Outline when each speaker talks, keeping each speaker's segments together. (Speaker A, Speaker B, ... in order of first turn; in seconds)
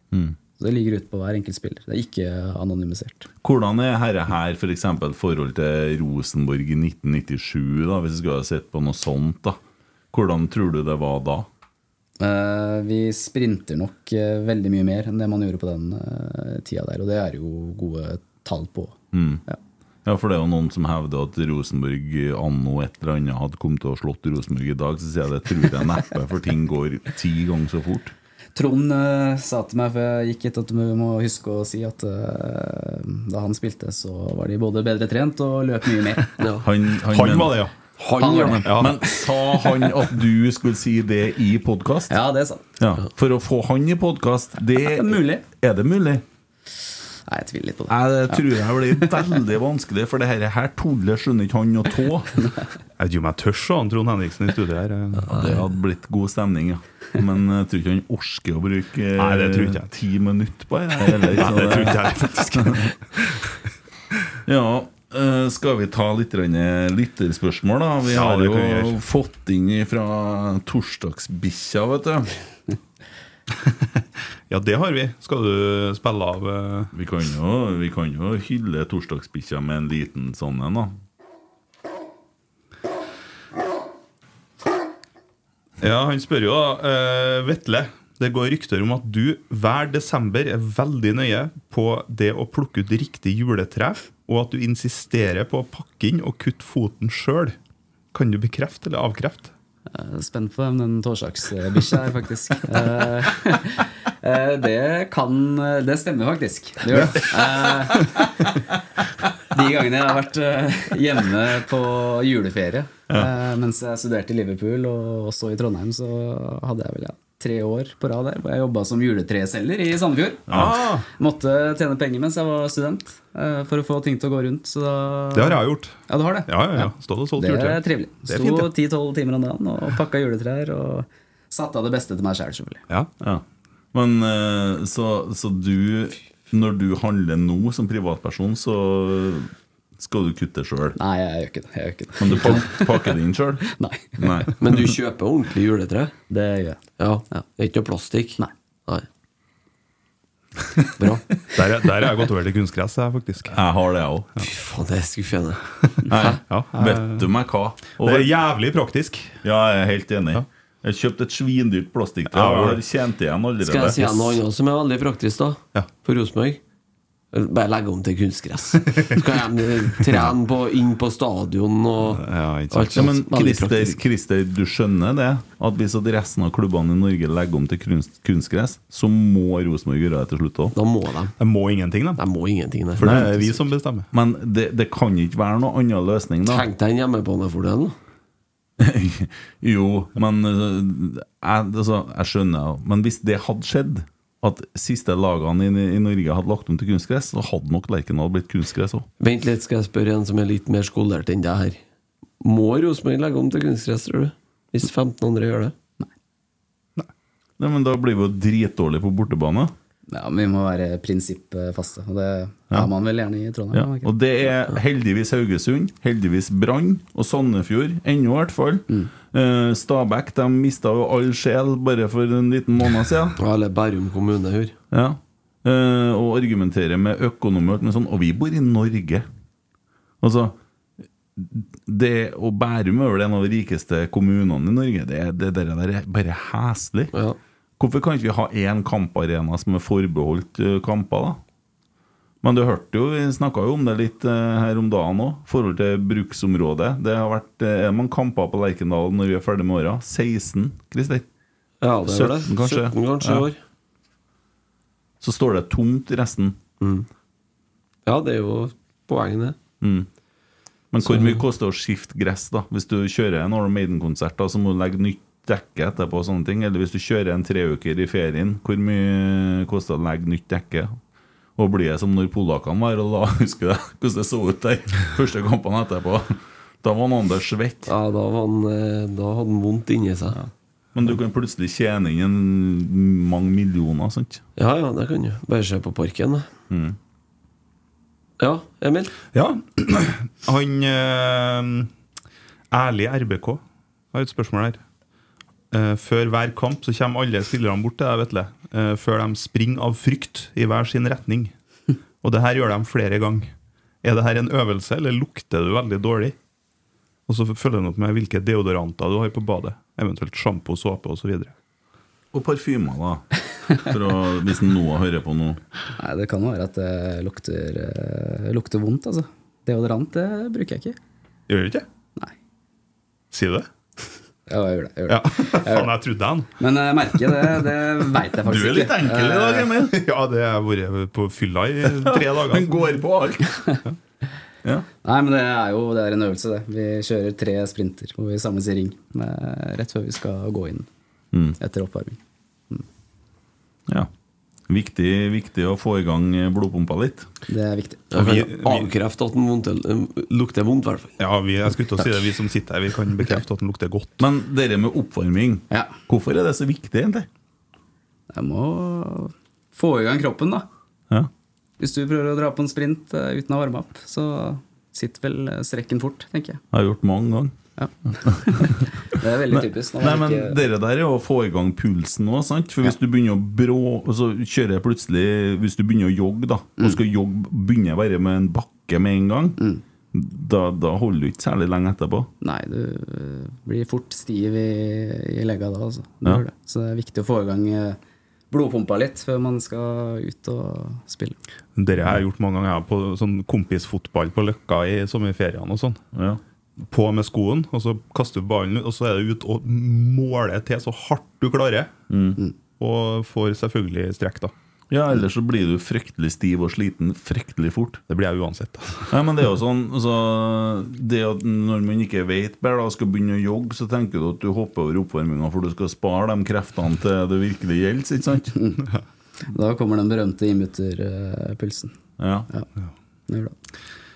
Speaker A: 0.1-0.4, 3.4-9.6, 10.1-11.5, 19.1-19.4, 20.0-28.1, 36.6-37.6, 38.4-42.1, 42.8-46.2, 47.9-52.3, 55.3-62.9, 64.5-72.3, 76.9-80.9, 120.5-120.8, 133.2-141.0, 142.2-143.6, 144.2-144.8, 153.5-154.3, 156.1-158.3, 159.4-164.4, 172.9-180.8, 183.0-183.3, 184.1-186.7, 188.8-199.1, 207.6-209.7, 213.7-223.4, 224.9-229.3, 230.2-230.6, 231.3-237.1, 237.8-241.4, 242.4-251.3, 252.0-253.5, 255.2-256.6, 259.8-260.1, 260.9-271.0, 271.6-277.9, 280.9-284.4, 286.7-287.0, 312.3-313.2, 313.8-315.6, 328.4-330.0, 331.9-333.6, 344.7-347.3, 354.2-357.3, 366.7-367.6, 368.1-368.9, 369.5-379.6, 380.1-382.3, 396.1-396.4, 402.1-402.4, 404.9-408.0, 409.1-418.5, 422.2-422.5
Speaker B: 0.6-3.3, 12.2-19.6, 28.5-36.3, 38.2-38.7, 42.1-42.7, 44.8-45.4, 47.3-48.5, 99.9-108.3, 109.5-132.8, 140.9-143.1, 143.7-144.2, 146.3-146.8, 210.1-214.1, 316.0-320.9, 324.5-325.9, 326.6-329.7, 335.0-340.9, 341.6-342.2, 347.5-348.1, 358.3-360.7, 361.8-366.6, 367.8-370.6, 382.4-388.0, 388.5-391.4, 418.5-418.8, 419.5-421.9, 423.3-423.5
Speaker C: 36.4-36.6, 38.0-38.7, 144.6-146.1, 147.0-149.0, 151.0-151.2, 154.4-155.6, 163.6-166.6, 167.3-174.0, 180.7-181.3, 182.2-183.5, 186.5-187.9, 199.2-201.8, 202.4-205.7, 223.4-224.7, 251.8-253.6, 256.8-257.1, 258.1-259.6, 261.0-261.4, 277.9-280.4, 284.6-286.5, 288.4-289.1, 348.1-351.1
Speaker D: 37.1-37.7, 38.6-39.0, 53.0-55.6, 59.2-59.9, 61.1-62.9, 68.1-68.9, 74.5-76.9, 85.8-97.5, 98.1-99.5, 120.5-121.1, 125.3-128.7, 151.5-153.6, 156.5-157.3, 158.0-159.4, 162.3-162.8, 172.1-173.1, 181.4-182.2, 182.9-184.1, 289.3-291.9, 292.7-293.6, 294.1-294.8, 295.7-301.5, 302.2-303.5, 304.0-306.3, 307.3-311.5, 321.5-321.8, 323.3-323.7, 325.1-326.5, 329.9-332.7, 348.1-348.9, 351.2-354.1, 391.8-396.0, 396.9-401.9, 402.8-404.5, 408.1-409.1